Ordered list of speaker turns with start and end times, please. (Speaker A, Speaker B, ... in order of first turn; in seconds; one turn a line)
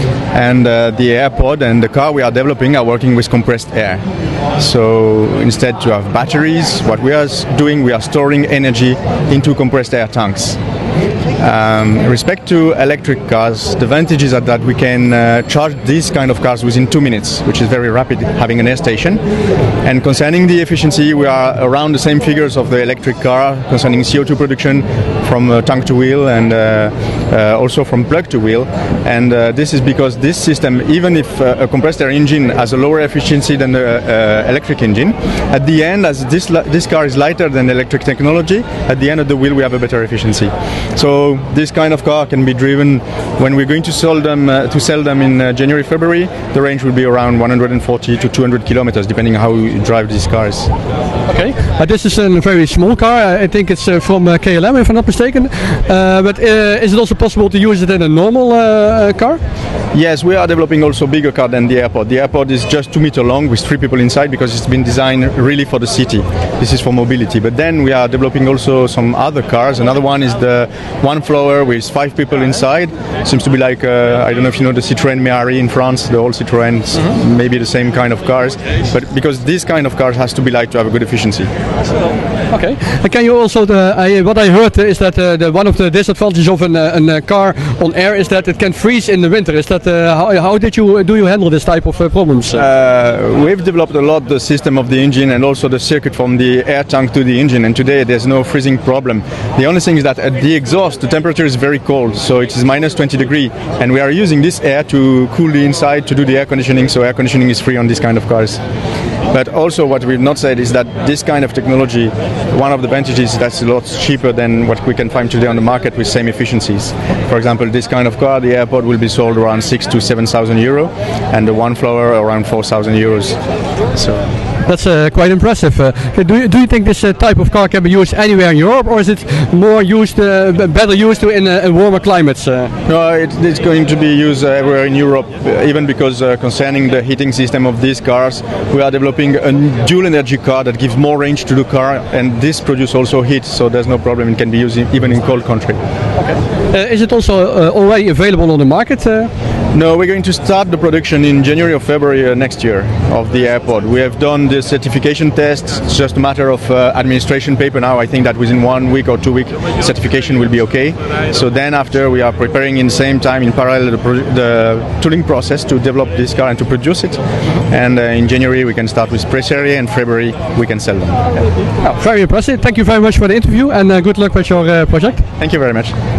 Speaker A: 0.3-4.0
Speaker A: 4.6-10.6
Speaker A: 11.4-19.2
Speaker A: 19.8-50.7
Speaker B: 51.3-59.4
Speaker A: 59.9-81.5
Speaker B: 82.5-92.6
Speaker A: 92.5-108.6
Speaker A: 109.3-123.4
Speaker A: 123.9-124.2
Speaker B: 124.7-132.7
Speaker A: 132.8-145.8
Speaker B: 146.2-149.3
Speaker A: 149.7-171.4
Speaker B: 171.8-175.2
Speaker A: 175.4-175.9